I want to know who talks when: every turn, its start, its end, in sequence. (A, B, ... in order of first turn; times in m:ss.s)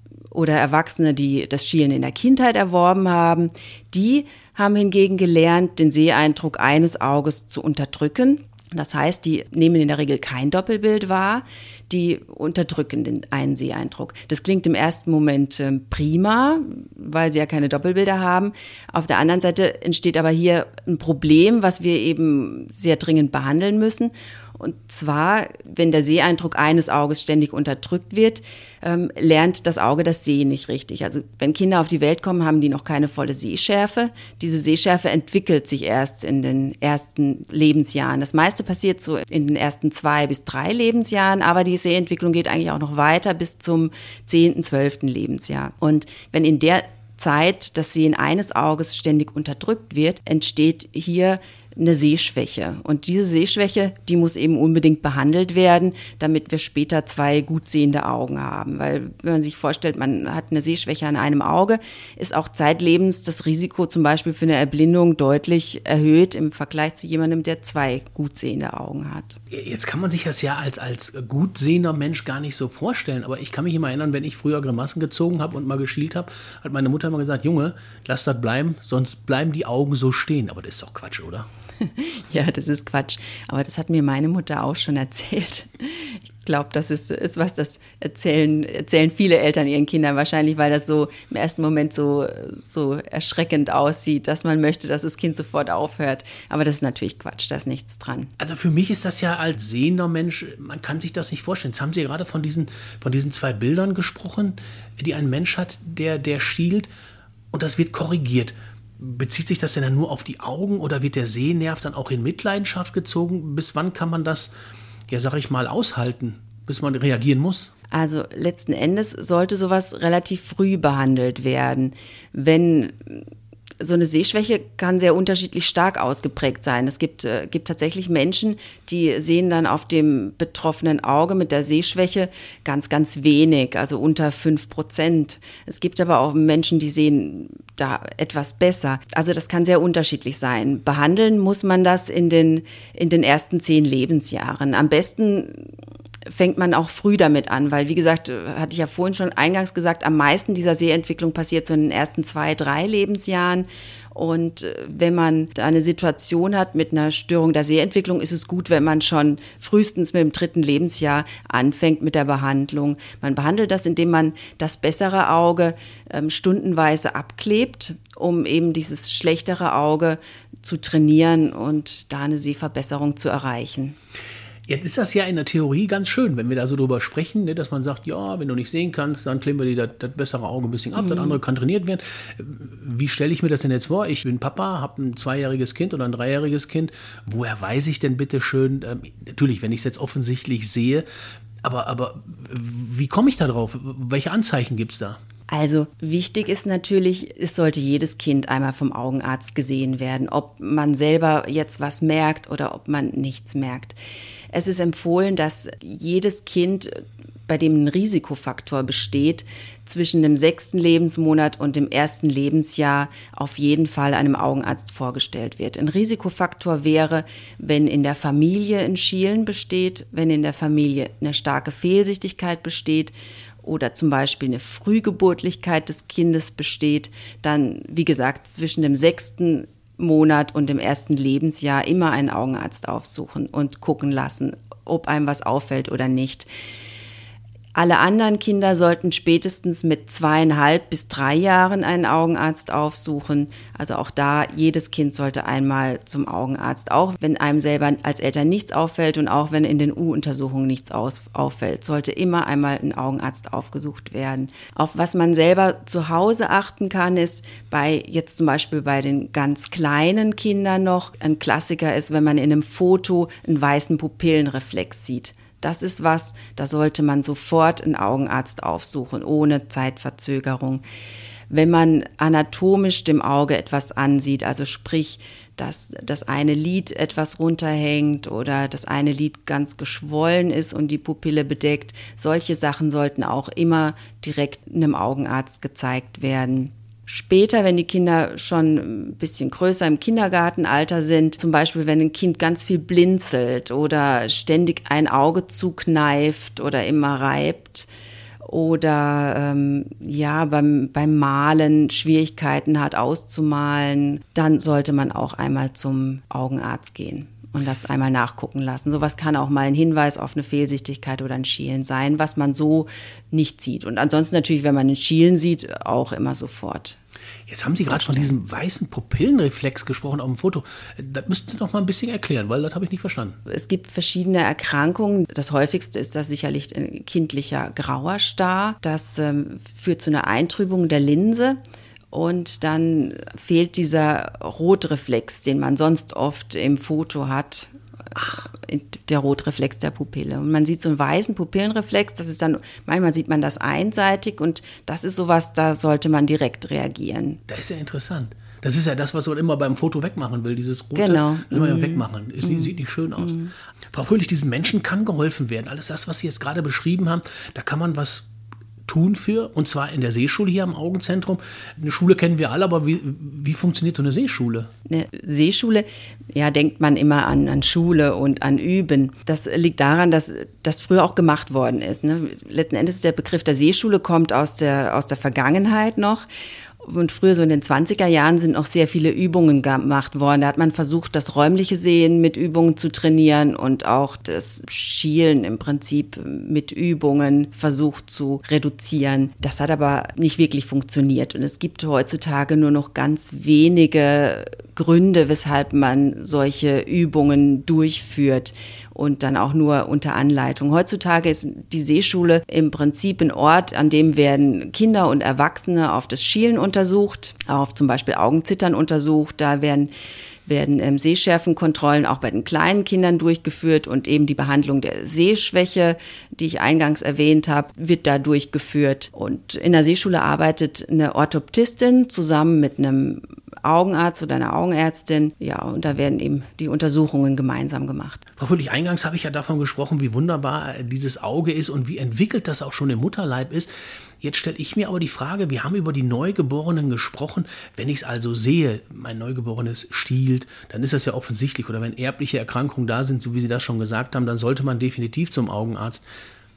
0:00.3-1:09.4 A
1:09.5-1:21.5 B
1:21.8-1:38.3 A
1:38.4-1:46.9 B
1:47.5-1:54.5 B
1:55.1-1:57.7 B
1:57.9-2:03.3 A
2:03.8-2:25.7 A
2:26.3-2:54.0 A
2:54.7-3:11.1 B
3:00.9-3:01.4 A
3:11.6-3:15.2 B
3:15.5-3:24.0 A
3:24.5-3:56.5 A
3:57.8-4:30.8 A
4:31.5-4:57.9 A
4:58.4-5:17.0 A
5:17.5-5:23.4 B
5:17.9-5:18.3 A
5:23.5-5:31.6 A
5:32.1-5:47.4 A
5:47.5-5:58.3 B
5:51.0-5:53.5 A
5:58.9-6:04.7 B
6:04.9-6:16.3 A
6:16.8-6:49.9 A
6:50.5-7:08.2 A
7:08.4-7:13.7 B
7:14.2-7:26.0 B